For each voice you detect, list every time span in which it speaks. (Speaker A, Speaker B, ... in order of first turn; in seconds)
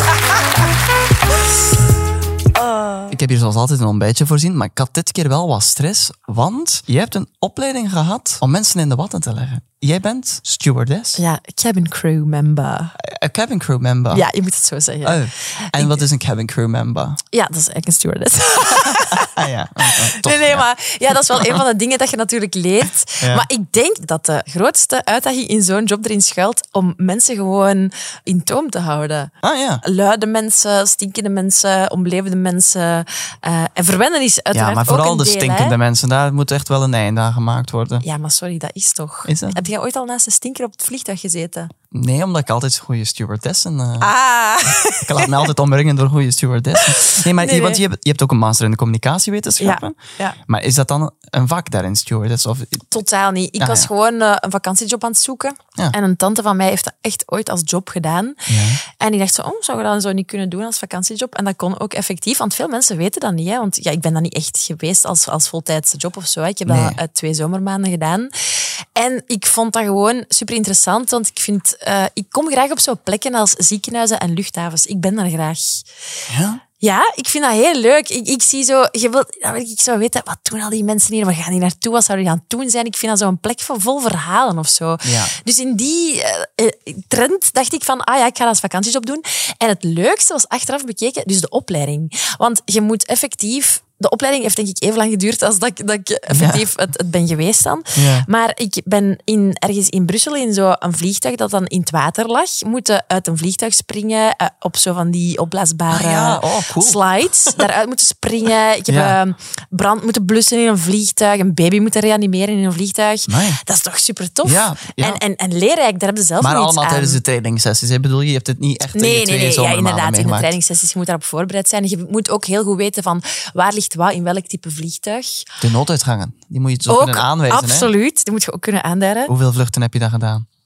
Speaker A: 2.6-3.1, 11.2-12.9, 14.1-16.0, 17.3-29.3, 29.8-35.8, 38.0-41.7, 44.0-45.5, 46.8-47.8, 49.6-50.4, 52.9-68.3, 68.9-75.8, 76.8-117.2, 118.9-125.5, 126.9-129.3
Speaker B: 3.1-11.2, 13.0-14.3, 15.0-17.2, 19.2-20.6, 21.3-21.6, 23.2-23.5, 29.4-29.8, 34.5-38.0, 39.2-39.6, 41.9-44.1, 44.8-52.9, 53.6-53.9, 58.5-58.8, 66.7-67.0, 76.3-76.6, 85.0-85.3, 96.3-96.6, 97.9-98.3, 105.9-107.4, 108.9-109.2, 113.3-113.6, 114.4-115.2, 116.4-120.5, 125.6-127.9, 129.3-130.4